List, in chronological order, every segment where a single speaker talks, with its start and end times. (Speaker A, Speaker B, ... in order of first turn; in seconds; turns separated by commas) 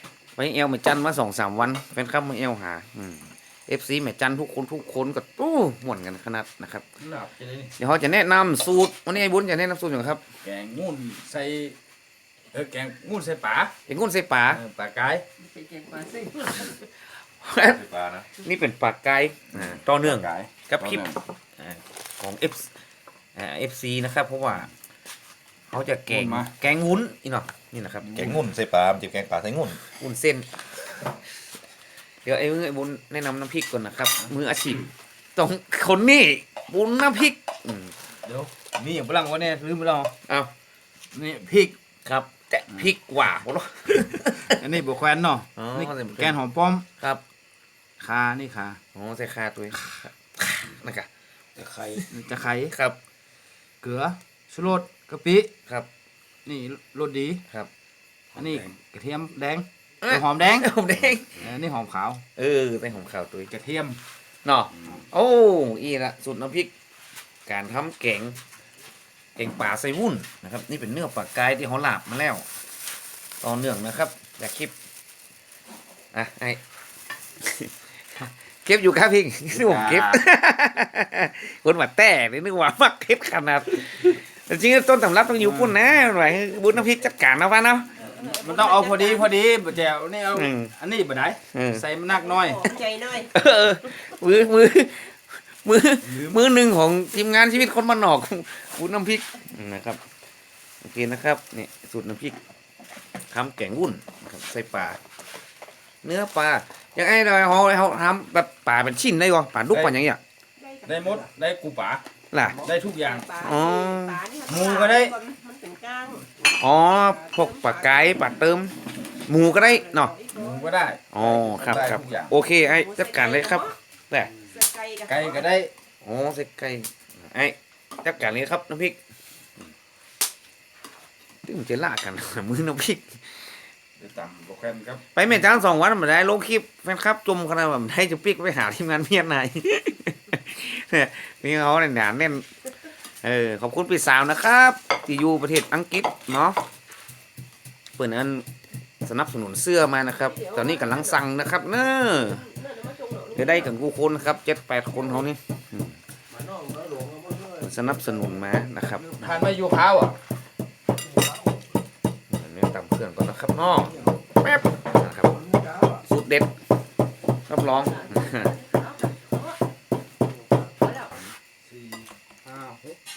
Speaker A: 0.4-6.8, Speaker B: 7.0-7.7, Speaker A: 7.8-10.2, Speaker B: 10.4-11.8, Speaker B: 12.5-13.7, Speaker A: 13.9-14.6, Speaker B: 14.5-15.2, Speaker C: 15.4-16.8, Speaker A: 17.4-17.8, Speaker D: 17.7-18.3, Speaker A: 18.4-22.7, Speaker B: 19.5-21.2, Speaker A: 23.4-24.7, Speaker A: 25.7-28.2, Speaker B: 26.1-26.5, Speaker B: 28.0-28.5, Speaker D: 28.1-29.9, Speaker A: 29.9-30.5, Speaker A: 32.2-37.9, Speaker B: 38.2-40.1, Speaker B: 41.1-41.7, Speaker A: 42.0-44.6, Speaker B: 44.4-46.9, Speaker A: 45.6-46.4, Speaker B: 48.0-48.8, Speaker A: 48.9-51.1, Speaker B: 51.6-52.7, Speaker A: 52.7-53.0, Speaker B: 53.8-55.5, Speaker B: 56.5-57.4, Speaker B: 58.4-60.7, Speaker A: 60.0-61.5, Speaker B: 61.4-62.2, Speaker A: 62.4-63.5, Speaker B: 63.5-64.0, Speaker A: 64.4-66.7, Speaker B: 64.8-65.0, Speaker A: 67.5-68.4, Speaker A: 69.4-72.4, Speaker A: 73.4-74.7, Speaker A: 76.1-76.6, Speaker A: 77.4-87.9, Speaker B: 79.5-80.2, Speaker B: 85.4-85.7, Speaker C: 88.0-89.3, Speaker B: 88.1-92.6, Speaker A: 90.3-90.7, Speaker A: 91.5-91.8, Speaker C: 92.1-93.3, Speaker A: 93.3-100.0, Speaker B: 96.0-96.4, Speaker A: 100.8-102.4, Speaker A: 103.3-105.0, Speaker A: 106.0-110.2, Speaker B: 109.7-110.0, Speaker C: 110.6-111.2, Speaker B: 110.8-112.0, Speaker A: 112.3-112.7, Speaker B: 112.6-113.2, Speaker C: 112.9-118.2, Speaker A: 113.3-114.2, Speaker B: 114.5-115.1, Speaker A: 116.5-118.7, Speaker A: 119.3-120.1, Speaker C: 119.3-120.8, Speaker B: 120.3-122.3, Speaker A: 121.1-124.3, Speaker C: 122.6-123.7, Speaker C: 124.3-125.5, Speaker B: 125.1-125.7, Speaker A: 126.0-129.0, Speaker A: 131.4-133.7, Speaker B: 134.0-135.0, Speaker A: 135.1-142.5, Speaker A: 143.2-146.6, Speaker A: 147.9-148.4, Speaker A: 149.0-152.4, Speaker C: 150.2-151.2, Speaker C: 152.1-153.7, Speaker A: 153.3-155.9, Speaker D: 156.3-158.2, Speaker A: 157.6-159.2, Speaker B: 159.2-160.2, Speaker D: 161.2-161.5, Speaker A: 162.3-165.4, Speaker D: 165.3-166.0, Speaker A: 166.0-166.5, Speaker A: 167.5-168.5, Speaker C: 167.6-169.6, Speaker C: 170.7-171.1, Speaker B: 171.7-173.0